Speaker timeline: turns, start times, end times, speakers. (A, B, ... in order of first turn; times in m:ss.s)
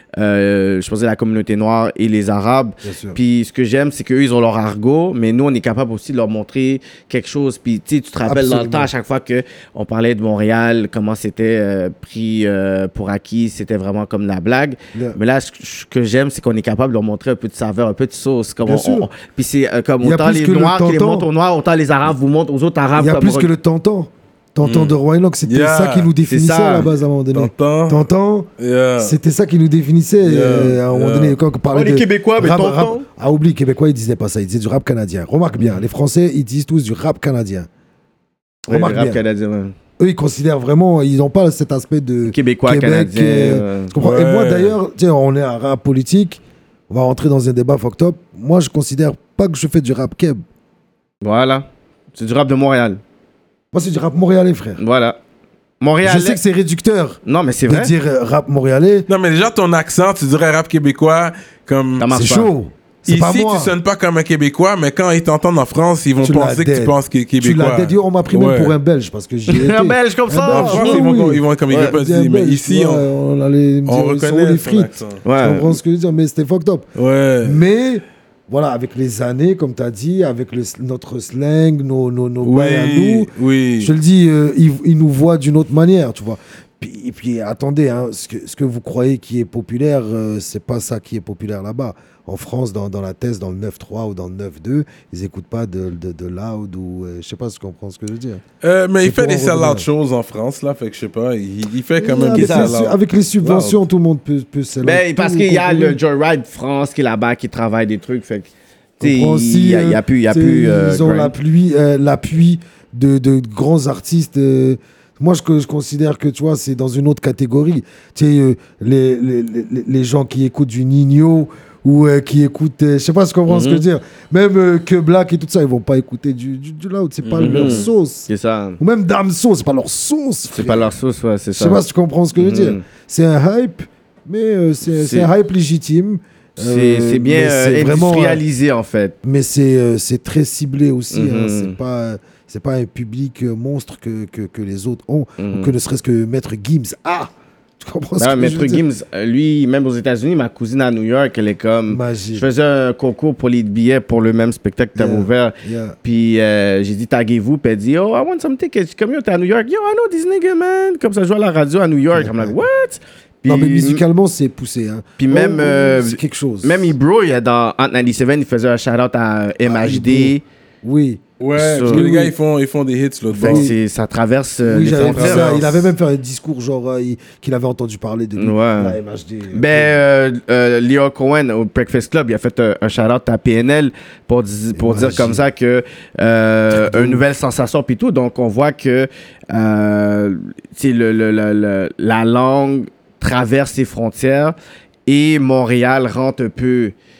0:00.2-0:23.5 A
0:02.8-0:03.2 B
0:08.2-0:08.9 B
0:18.6-0:19.1 B
0:20.0-0:21.3 B
0:23.0-0:37.7 B
0:24.6-0:26.1 C
0:26.2-0:26.9 A
0:27.3-0:28.0 C
0:28.6-0:29.2 C
0:30.2-0:31.4 C
0:31.7-0:33.0 A
0:38.7-0:39.7 A
0:38.7-0:39.2 B
0:40.0-0:50.4 B
0:42.2-0:43.9 A
0:44.0-0:44.8 C
0:51.2-0:53.0 A
0:53.7-0:54.8 B
0:54.8-0:55.2 A
0:55.8-0:56.4 A
0:56.0-0:59.1 B
0:57.2-0:57.9 A
0:59.1-1:02.1 C
1:02.0-1:02.5 A
1:02.1-1:03.8 B
1:03.1-1:08.7 C
1:06.2-1:16.9 B
1:09.5-1:11.1 A
1:10.5-1:13.0 C
1:13.9-1:15.2 C
1:15.2-1:15.7 A
1:17.0-1:17.6 C
1:17.4-1:38.4 B
1:22.4-1:23.9 C
1:38.6-1:43.8 C
1:39.0-1:39.9 B
1:42.0-1:46.0 B
1:42.3-1:42.7 A
1:44.8-1:51.3 A
1:49.0-2:10.9 B
2:03.5-2:03.8 A
2:07.2-2:07.9 C
2:07.4-2:08.8 A
2:10.5-2:11.8 A
2:11.6-2:18.4 B
2:12.4-2:12.8 A
2:14.9-2:15.3 A
2:16.6-2:19.2 A
2:19.2-2:28.8 B
2:21.1-2:21.8 A
2:25.4-2:25.7 A
2:28.2-2:44.0 A
2:31.9-2:32.4 B
2:35.0-2:36.0 B
2:42.1-2:42.6 B
2:43.4-2:46.9 B
2:45.2-2:50.4 A
2:49.6-2:52.3 B
2:51.4-2:53.7 C
2:51.6-2:52.0 A
2:53.3-2:53.8 B
2:53.4-2:55.5 A
2:54.6-3:00.0 B
2:55.0-2:55.9 C
2:58.4-2:59.0 A
2:59.5-3:14.5 A
3:04.7-3:05.4 B
3:06.7-3:07.2 B
3:15.1-3:16.9 A